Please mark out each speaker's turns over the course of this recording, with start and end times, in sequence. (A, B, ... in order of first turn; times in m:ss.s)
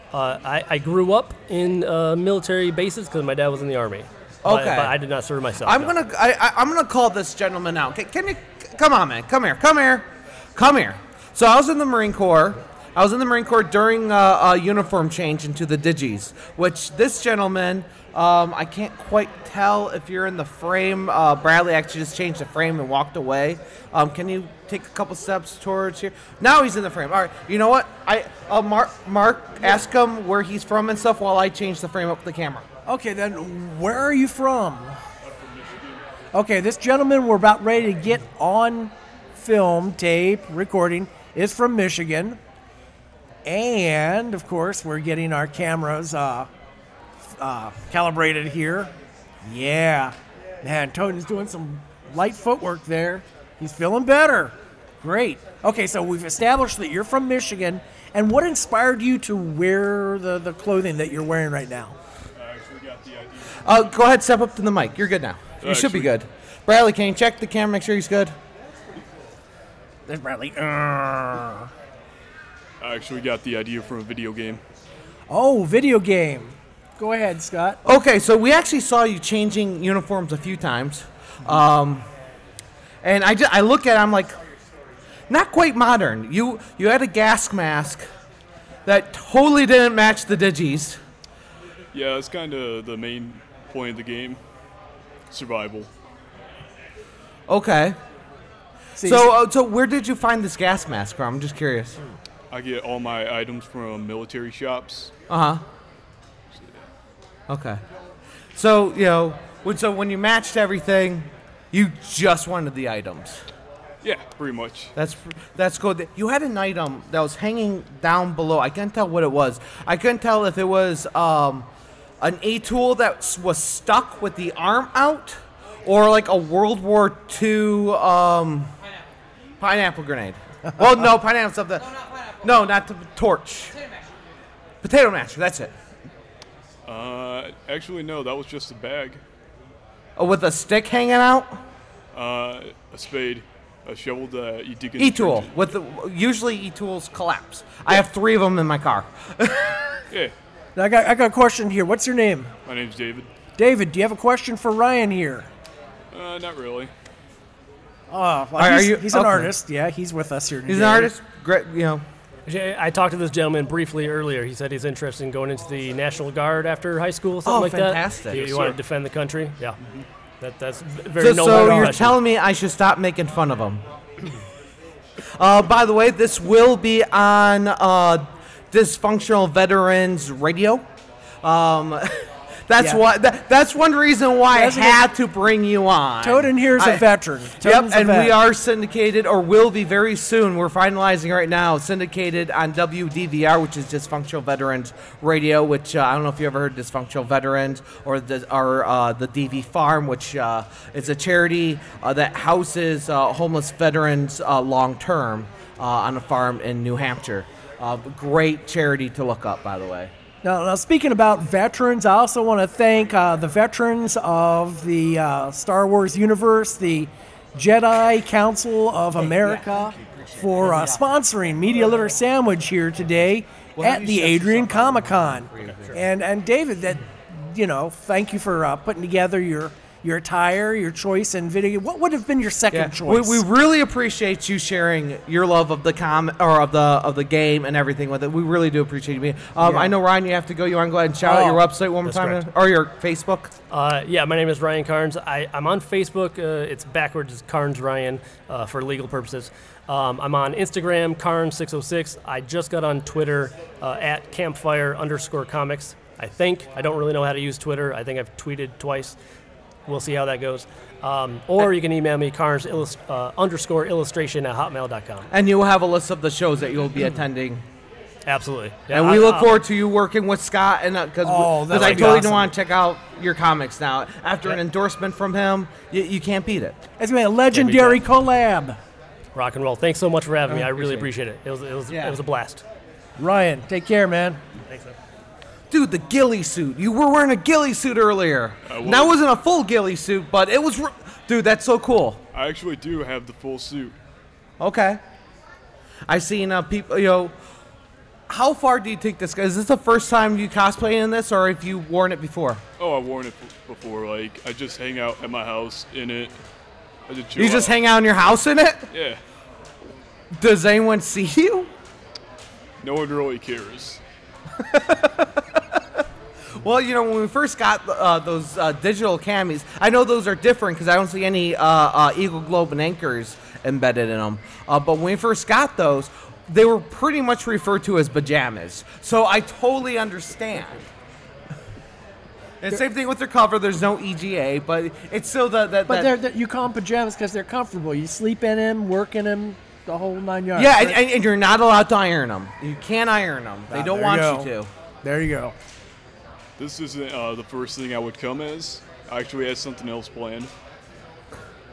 0:00.1-0:06.0 A
0:04.4-0:05.0 B
0:05.6-0:32.7 B
0:32.9-0:35.0 C
0:35.2-0:36.0 D
0:36.3-0:42.4 C
0:43.4-0:46.5 C
0:47.4-0:48.9 C
0:49.4-1:02.0 C
1:02.3-1:03.6 D
1:03.6-1:08.3 B
1:05.6-1:06.1 D
1:10.1-1:11.7 C
1:12.8-1:14.6 D
1:15.3-1:17.8 C
1:17.8-1:22.1 B
1:23.0-1:24.4 B
1:25.3-1:28.1 B
1:28.9-1:31.0 B
1:31.9-1:34.4 D
1:35.3-1:35.9 D
1:37.5-1:38.0 B
1:39.0-1:39.3 C
1:39.0-1:42.0 B
1:42.5-1:45.1 D
1:45.3-1:45.6 B
1:46.5-1:46.8 D
1:47.5-1:47.8 B
1:48.6-1:53.4 B
1:54.0-1:54.9 D
1:55.0-2:01.7 B
2:02.2-2:08.7 B
2:09.6-2:13.8 B
2:14.8-2:15.7 B
2:16.9-2:19.2 D
2:20.2-2:21.6 B
2:22.1-2:25.5 D
2:25.0-2:30.0 B
2:30.8-2:32.5 C
2:32.7-2:33.3 D
2:33.6-2:35.5 C
2:36.1-2:36.9 D
2:38.1-2:41.1 C
2:38.6-2:39.5 B
2:40.7-2:42.0 B
2:42.5-2:49.8 A
2:47.4-2:48.5 B
2:48.3-2:48.8 D
2:50.4-2:52.2 A
2:51.2-2:53.8 B
2:51.6-2:52.0 C
2:55.4-3:00.8 B
3:01.4-3:07.1 B
3:04.5-3:05.0 C
3:06.2-3:08.4 C
3:07.6-3:30.1 B
3:30.4-3:53.4 C
3:39.2-3:41.0 B
3:43.8-3:46.0 B
3:52.7-4:03.5 B
3:59.6-3:59.9 C
4:01.2-4:01.6 C
4:02.0-4:02.4 A
4:03.7-4:19.2 A
4:19.9-4:25.3 A
4:25.3-4:27.6 B
4:28.3-4:29.6 A
4:28.9-4:36.8 B
4:31.2-4:32.5 C
4:31.7-4:32.3 A
4:37.0-4:38.8 C
4:37.5-4:38.0 A
4:39.4-4:42.6 A
4:40.5-4:41.0 C
4:41.9-4:42.2 B
4:43.2-4:44.4 C
4:44.7-4:45.0 A
4:45.7-4:52.2 B
4:48.7-4:49.2 D
4:52.3-4:54.0 D
4:54.6-4:55.0 B
4:56.1-4:57.3 B
4:58.3-5:02.6 B
5:02.8-5:06.4 D
5:07.1-5:07.8 D
5:07.4-5:08.9 B
5:08.9-5:09.2 D
5:10.4-5:11.7 B
5:12.8-5:14.0 D
5:14.6-5:15.4 B
5:16.6-5:30.9 B
5:32.6-5:36.1 B
5:35.9-5:41.0 C
5:40.6-5:44.7 B
5:43.7-5:44.5 C
5:45.0-5:45.5 C
5:46.6-5:50.5 D